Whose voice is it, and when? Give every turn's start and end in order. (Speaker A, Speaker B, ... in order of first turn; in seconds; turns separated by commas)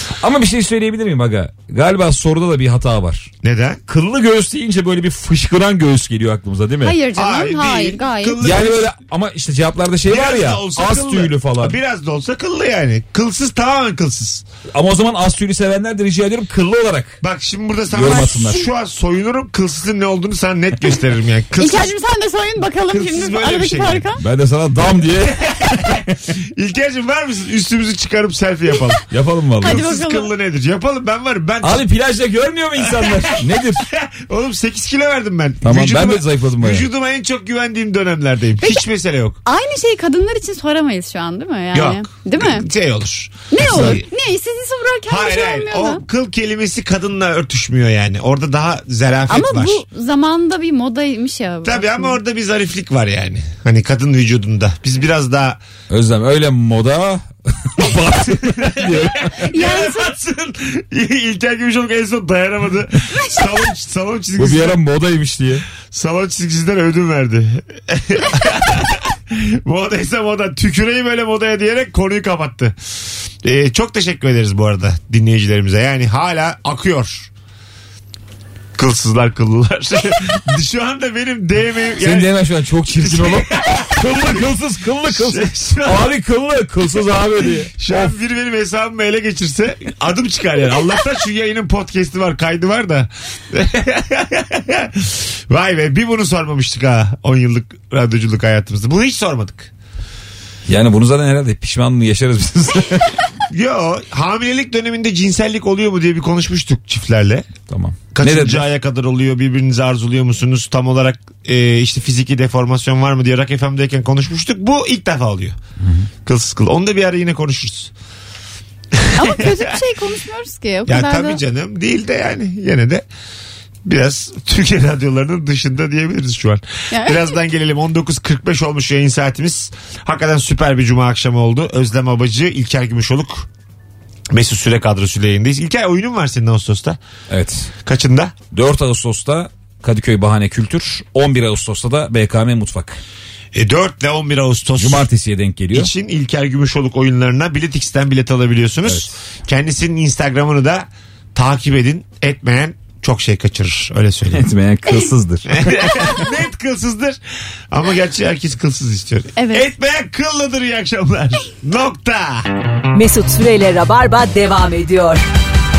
Speaker A: 0.2-3.3, Speaker B: 3.4-3.8, Speaker A: 3.9-7.0, Speaker C: 6.8-8.4, Speaker B: 7.1-8.9, Speaker A: 8.4-11.8, Speaker B: 10.1-14.4, Speaker A: 14.7-17.2, Speaker B: 17.2-21.9, Speaker A: 17.9-18.7, Speaker C: 21.6-24.2, Speaker B: 22.9-24.1, Speaker A: 24.2-26.1, Speaker B: 25.5-29.1, Speaker A: 29.1-29.9, Speaker B: 29.6-31.9, Speaker C: 29.6-30.3, Speaker A: 31.6-33.9, Speaker B: 32.9-39.4, Speaker A: 35.6-36.9, Speaker C: 39.5-42.7, Speaker B: 41.7-44.1, Speaker C: 43.5-46.0, Speaker B: 45.1-49.8, Speaker C: 49.3-52.2, Speaker B: 51.6-55.6, Speaker A: 55.9-59.4, Speaker B: 58.4-64.8, Speaker C: 59.4-60.1, Speaker A: 64.4-65.7, Speaker B: 65.8-72.8, Speaker B: 73.4-77.3, Speaker B: 78.8-82.3, Speaker A: 82.0-88.1, Speaker B: 83.0-84.0, Speaker B: 85.1-86.1, Speaker B: 87.7-99.7, Speaker A: 100.7-103.2, Speaker B: 103.5-107.5, Speaker A: 107.7-108.6, Speaker B: 108.1-115.6, Speaker A: 115.8-116.1, Speaker B: 116.2-117.9, Speaker B: 119.0-119.8, Speaker C: 119.2-121.4, Speaker B: 120.9-123.0, Speaker B: 123.8-133.5, Speaker C: 126.9-127.4, Speaker B: 134.3-137.0, Speaker A: 137.3-137.7, Speaker B: 137.8-138.4, Speaker A: 138.5-143.0, Speaker B: 143.5-145.1, Speaker A: 144.8-145.9, Speaker B: 145.7-154.5, Speaker A: 148.9-149.1, Speaker A: 154.3-156.0, Speaker B: 155.5-157.2, Speaker B: 157.7-162.5, Speaker C: 159.4-159.7, Speaker D: 162.9-165.2